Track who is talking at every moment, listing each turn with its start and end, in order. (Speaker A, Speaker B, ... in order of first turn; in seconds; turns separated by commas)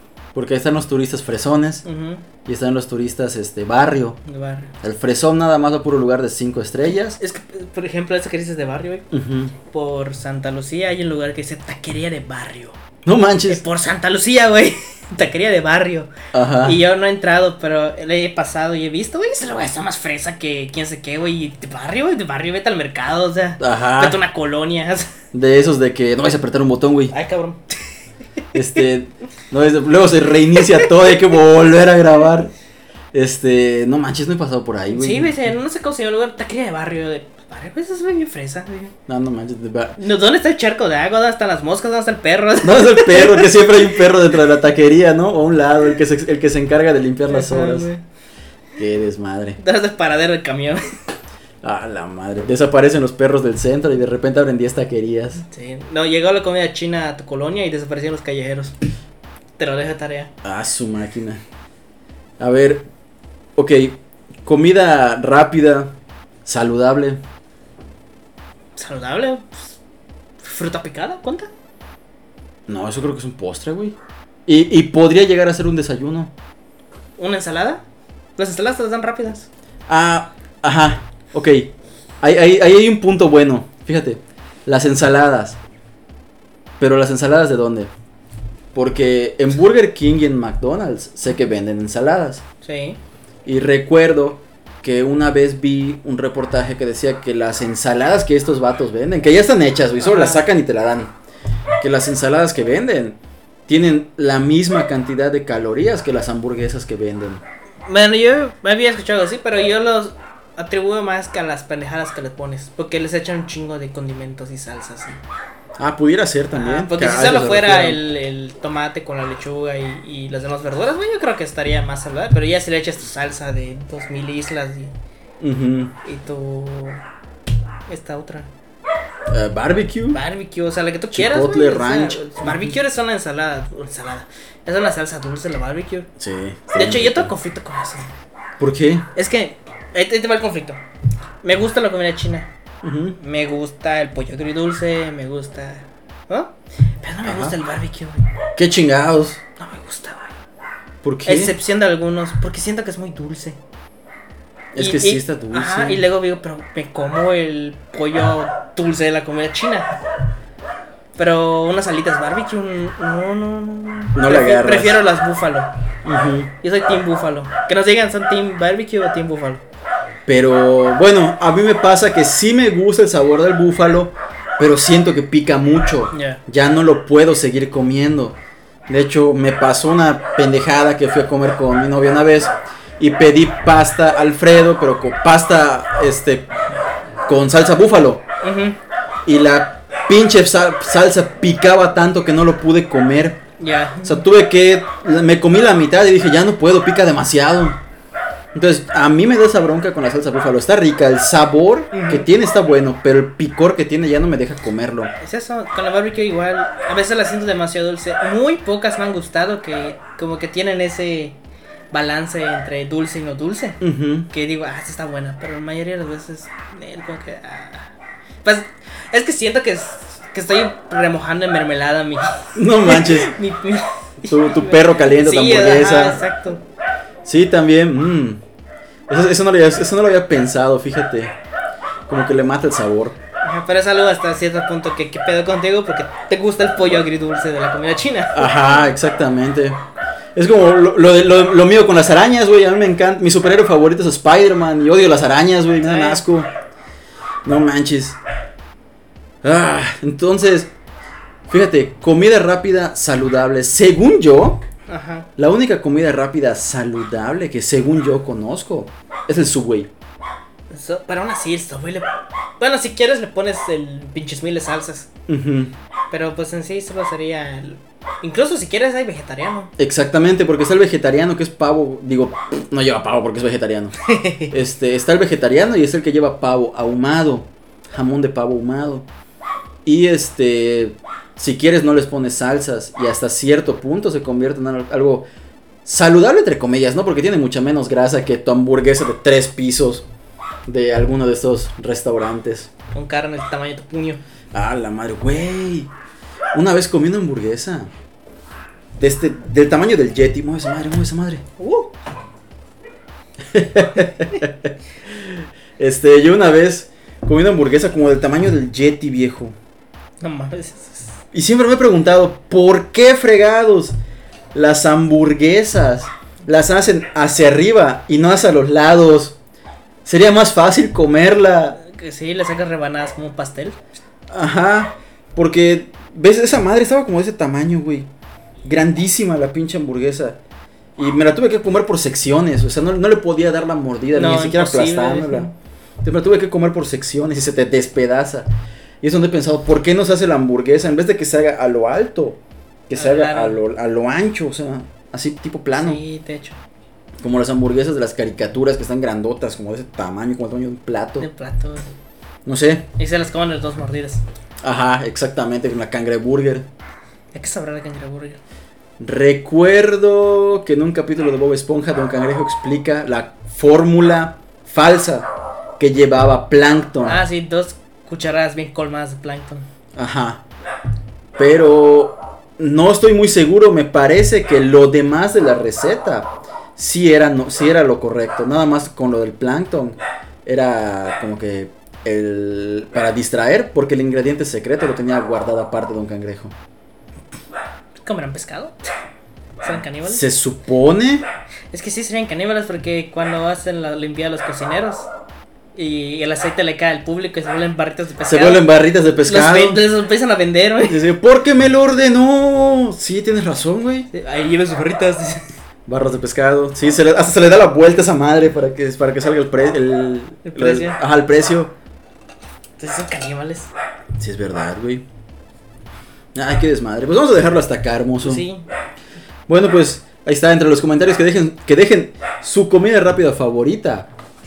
Speaker A: 0.3-1.8, Speaker B: 1.8-2.2, Speaker A: 2.4-4.2, Speaker B: 4.2-4.7, Speaker A: 4.8-7.2, Speaker B: 6.9-9.1, Speaker A: 9.1-9.5, Speaker B: 9.6-12.8, Speaker A: 13.0-13.6, Speaker B: 13.5-25.1, Speaker A: 16.3-16.8, Speaker A: 23.6-24.2, Speaker A: 25.3-27.1, Speaker B: 27.1-27.8, Speaker A: 28.5-32.5, Speaker B: 30.6-30.9, Speaker A: 33.1-35.5, Speaker B: 34.9-38.9, Speaker A: 39.1-40.0, Speaker B: 40.0-44.2, Speaker A: 42.6-47.9, Speaker B: 47.3-48.0, Speaker A: 48.8-49.6, Speaker B: 49.6-50.8, Speaker A: 51.6-55.4, Speaker B: 55.4-58.7, Speaker B: 59.6-60.3, Speaker A: 60.4-61.4, Speaker A: 62.4-62.8, Speaker A: 63.6-65.9, Speaker A: 66.5-67.2, Speaker B: 68.8-69.8, Speaker B: 70.4-71.5, Speaker A: 72.7-76.3, Speaker B: 77.2-77.8, Speaker B: 78.4-79.5, Speaker A: 79.9-81.7, Speaker A: 82.2-85.6, Speaker A: 86.8-87.9, Speaker A: 88.7-92.4, Speaker B: 92.6-93.0, Speaker A: 93.4-101.1, Speaker B: 100.0-100.5, Speaker A: 101.8-103.2, Speaker A: 103.7-107.4, Speaker B: 107.8-115.2, Speaker A: 115.8-118.0, Speaker B: 116.5-124.9, Speaker A: 125.4-125.9, Speaker B: 126.0-127.0, Speaker B: 127.9-128.5, Speaker A: 129.3-130.2, Speaker B: 130.1-136.1, Speaker A: 131.1-132.8, Speaker A: 136.2-137.3, Speaker B: 136.7-138.1, Speaker A: 138.6-139.1, Speaker B: 139.1-140.8, Speaker B: 141.4-142.5, Speaker A: 142.8-143.2, Speaker B: 143.2-148.3, Speaker A: 147.2-147.6, Speaker A: 148.6-149.4, Speaker B: 149.6-150.3, Speaker A: 151.0-151.5, Speaker B: 151.2-153.6, Speaker A: 154.7-156.1, Speaker B: 154.8-160.0, Speaker B: 161.2-165.7, Speaker A: 164.1-165.0, Speaker A: 166.0-166.5, Speaker B: 166.6-169.6, Speaker A: 170.2-186.5, Speaker B: 176.1-176.4, Speaker A: 187.3-188.2, Speaker B: 188.4-188.8, Speaker A: 189.2-193.4, Speaker B: 193.6-194.2, Speaker A: 194.0-197.8, Speaker A: 198.5-205.1, Speaker B: 201.9-202.2, Speaker B: 205.2-211.4, Speaker B: 211.9-226.6, Speaker A: 213.8-214.3, Speaker A: 222.5-223.3, Speaker A: 224.2-226.2, Speaker A: 227.2-228.4, Speaker A: 229.1-231.3, Speaker A: 232.1-233.2, Speaker B: 233.4-238.5, Speaker A: 238.3-239.8, Speaker A: 240.3-246.5, Speaker B: 245.8-246.2, Speaker A: 247.4-248.2, Speaker A: 249.4-250.7, Speaker A: 251.5-254.6, Speaker B: 254.9-255.3, Speaker A: 255.3-259.9, Speaker B: 260.7-265.1, Speaker A: 265.3-265.7, Speaker B: 266.1-269.7, Speaker A: 269.8-279.0, Speaker B: 274.0-274.5, Speaker A: 279.8-285.2, Speaker A: 285.8-290.1, Speaker A: 290.7-292.7, Speaker B: 292.9-294.2, Speaker A: 294.5-295.9, Speaker A: 296.5-297.9, Speaker A: 299.0-301.4, Speaker B: 301.6-301.9, Speaker A: 303.5-309.5, Speaker B: 310.2-311.2, Speaker A: 311.3-313.9, Speaker A: 314.5-319.4, Speaker A: 320.0-321.8, Speaker B: 321.8-323.8, Speaker A: 324.3-328.1, Speaker A: 328.6-330.4, Speaker A: 331.0-335.5, Speaker B: 334.1-335.5, Speaker A: 336.0-338.4, Speaker A: 339.0-346.0, Speaker B: 342.9-343.6, Speaker B: 345.8-346.6, Speaker A: 347.2-351.3, Speaker B: 351.2-351.9, Speaker A: 352.4-352.9, Speaker B: 353.0-354.2, Speaker A: 354.6-356.6, Speaker B: 357.3-358.4, Speaker A: 359.0-367.2, Speaker B: 367.0-369.7, Speaker A: 369.9-370.4, Speaker A: 371.4-386.5, Speaker B: 388.0-388.9, Speaker B: 389.6-390.2, Speaker A: 390.0-391.2, Speaker B: 391.7-395.1, Speaker B: 395.7-398.6, Speaker A: 398.2-399.8, Speaker B: 399.2-401.0, Speaker A: 400.8-404.1, Speaker B: 404.1-405.5, Speaker A: 405.9-411.7, Speaker B: 410.4-411.0, Speaker B: 412.8-413.7, Speaker A: 414.2-415.0, Speaker A: 416.3-418.4, Speaker B: 418.2-418.7, Speaker A: 419.5-424.1